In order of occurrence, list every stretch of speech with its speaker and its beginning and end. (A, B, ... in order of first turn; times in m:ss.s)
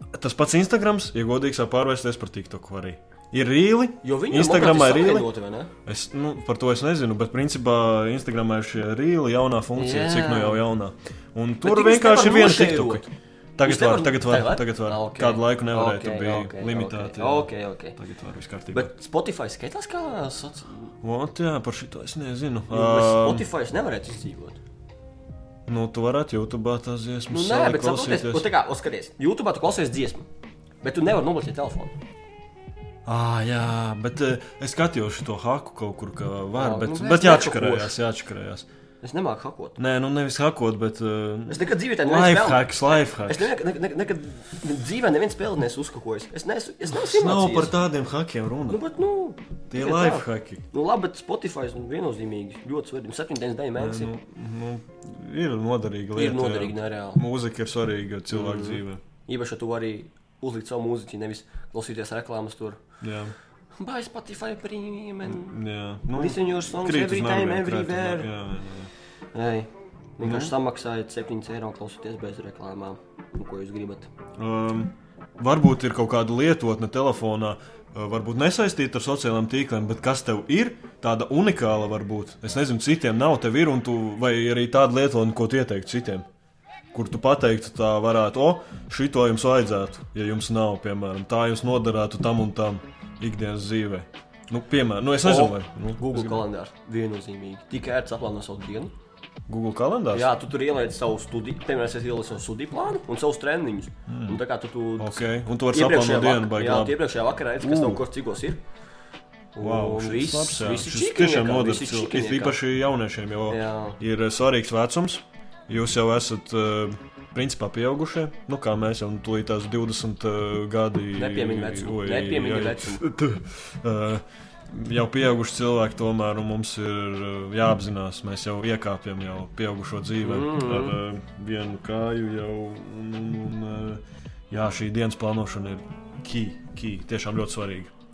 0:00.1-0:05.3 A
0:04.0-0:05.7 B
0:05.8-0:18.9 A
0:09.8-0:10.6 B
0:11.6-0:13.1 B
0:13.6-0:18.0 B
0:18.7-0:20.9 B
0:21.0-0:23.5 A
0:22.7-0:24.6 B
0:25.7-0:28.5 A
0:27.3-0:30.3 B
0:30.8-0:31.9 B
0:33.0-0:38.7 A
0:36.6-0:37.9 B
0:39.0-0:39.8 B
0:39.8-0:43.5 A
0:41.5-0:47.7 B
0:46.9-0:48.8 A
0:48.7-0:54.1 B
0:49.7-0:50.6 A
0:53.8-0:59.0 A
0:56.2-0:57.2 B
0:58.3-1:02.8 B
1:03.0-1:03.3 A
1:03.8-1:05.6 B
1:05.2-1:08.9 A
1:06.1-1:08.3 B
1:09.3-1:14.1 B
1:10.2-1:10.6 A
1:14.4-1:26.3 A
1:26.9-1:36.4 A
1:35.2-1:38.9 B
1:39.5-1:40.3 A
1:40.1-1:48.6 B
1:44.1-1:44.4 A
1:45.0-1:47.0 A
1:47.6-1:48.0 A
1:49.6-1:52.6 B
1:49.6-2:17.9 A
1:53.5-1:54.0 B
2:01.1-2:03.1 B
2:10.2-2:11.0 B